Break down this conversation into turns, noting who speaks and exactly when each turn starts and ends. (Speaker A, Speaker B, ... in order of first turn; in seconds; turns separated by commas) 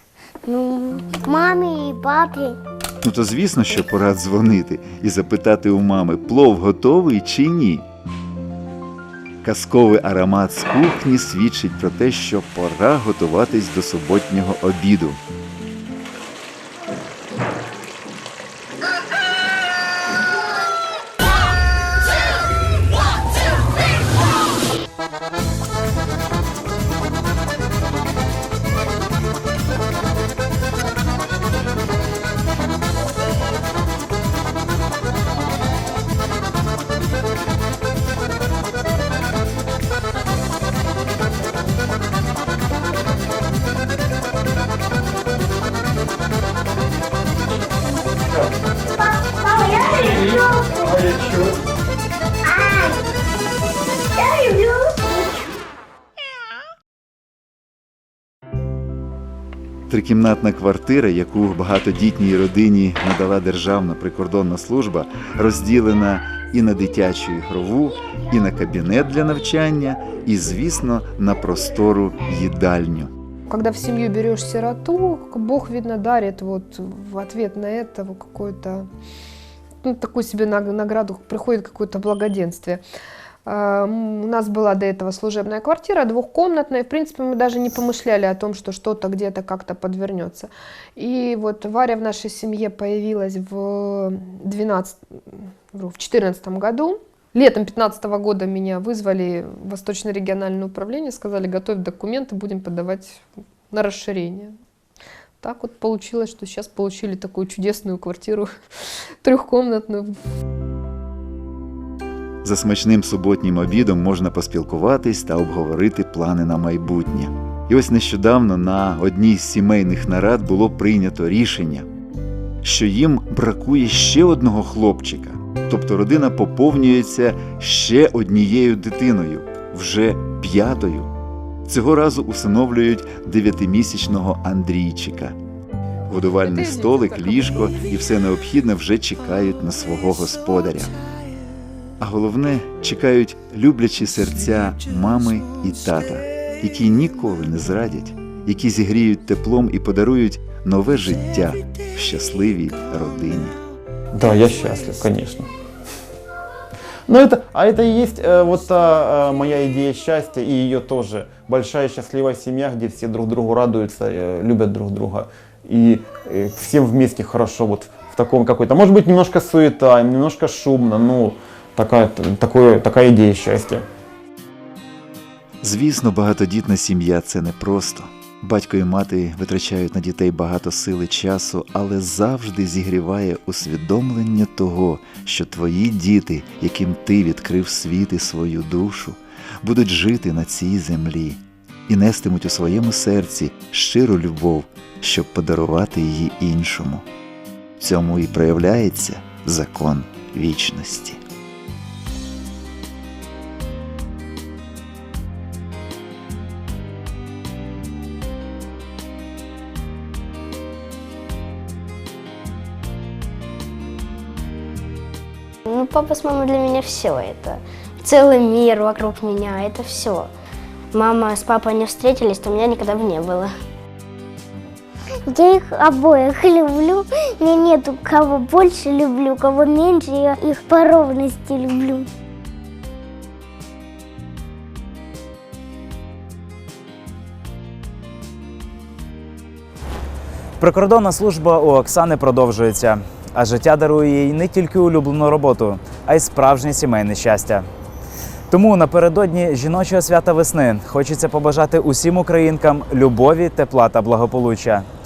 Speaker A: 0.5-2.6, Speaker B: 3.0-7.8, Speaker B: 9.4-15.2, Speaker A: 49.2-50.8, Speaker C: 49.9-51.6, Speaker A: 52.5-52.9, Speaker A: 54.2-55.2, Speaker B: 59.9-73.1, Speaker D: 73.5-78.9, Speaker D: 79.8-82.8, Speaker D: 83.5-104.5, Speaker D: 105.4-108.5, Speaker D: 109.2-110.1, Speaker B: 112.4-121.9, Speaker B: 122.6-131.1, Speaker B: 131.7-135.3, Speaker B: 136.1-140.9, Speaker D: 136.4-137.7, Speaker B: 142.0-153.6, Speaker C: 154.1-155.5, Speaker C: 157.1-173.8, Speaker B: 175.6-197.1, Speaker B: 197.8-201.2, Speaker E: 215.7-220.3, Speaker E: 220.9-223.5, Speaker A: 225.3-232.1, Speaker F: 240.6-247.7, Speaker F: 248.5-254.9